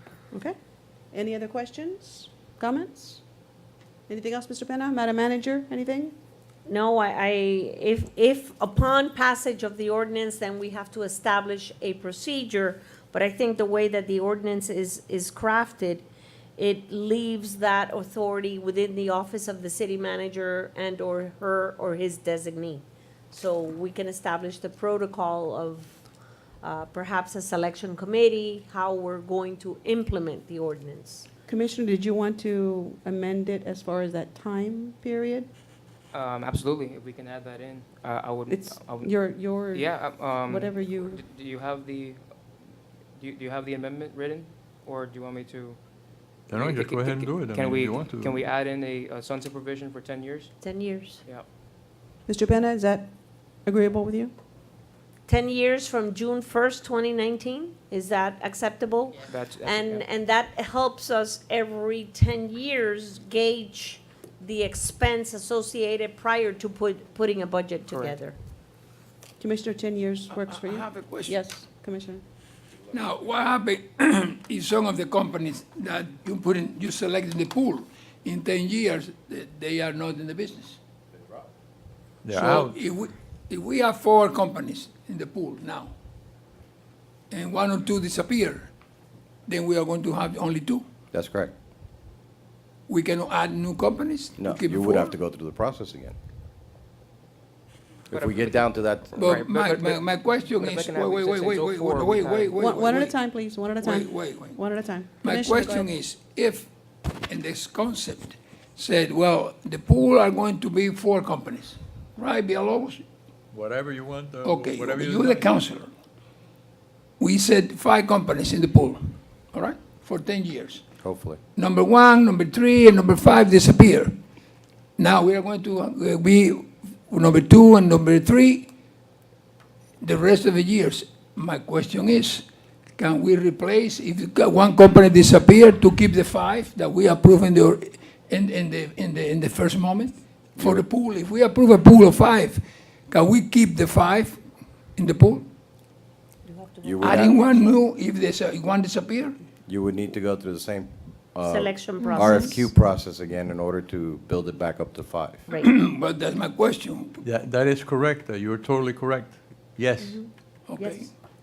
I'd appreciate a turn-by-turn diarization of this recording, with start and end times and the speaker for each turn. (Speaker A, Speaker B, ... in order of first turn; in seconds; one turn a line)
Speaker A: 1.1-3.2
Speaker A: 4.1-6.1
Speaker B: 6.7-16.1
Speaker B: 16.6-26.0
Speaker B: 26.6-31.3
Speaker A: 31.5-35.5
Speaker C: 36.1-39.1
Speaker A: 38.5-41.2
Speaker C: 39.7-42.2
Speaker C: 43.2-45.8
Speaker D: 46.5-48.4
Speaker C: 46.5-50.6
Speaker B: 50.6-51.2
Speaker A: 52.3-53.1
Speaker A: 53.6-54.3
Speaker B: 55.3-68.3
Speaker C: 59.2-60.0
Speaker C: 67.9-68.2
Speaker A: 69.4-72.2
Speaker E: 70.3-71.4
Speaker E: 72.9-80.8
Speaker D: 82.2-82.8
Speaker E: 82.3-85.9
Speaker E: 87.3-88.7
Speaker E: 89.5-90.8
Speaker F: 91.1-91.5
Speaker E: 92.9-95.2
Speaker F: 94.4-96.2
Speaker F: 98.1-99.4
Speaker C: 98.1-102.6
Speaker E: 99.2-103.2
Speaker A: 102.6-105.9
Speaker E: 103.8-104.6
Speaker E: 105.2-106.7
Speaker E: 107.3-113.0
Speaker D: 113.5-115.6
Speaker E: 114.4-115.9
Speaker E: 117.2-120.9
Speaker F: 121.0-121.4
Speaker E: 121.6-124.2
Speaker E: 125.0-128.7
Speaker E: 130.0-132.4
Speaker E: 133.0-144.4
Speaker F: 140.6-140.8
Speaker E: 144.9-145.4
Speaker B: 146.4-147.1
Speaker F: 146.8-147.4
Speaker E: 147.0-149.3
Speaker F: 149.7-155.5
Speaker B: 151.5-152.5
Speaker A: 152.0-152.5
Speaker E: 155.5-157.2
Speaker D: 157.2-160.3
Speaker B: 160.0-160.9
Speaker E: 160.7-161.1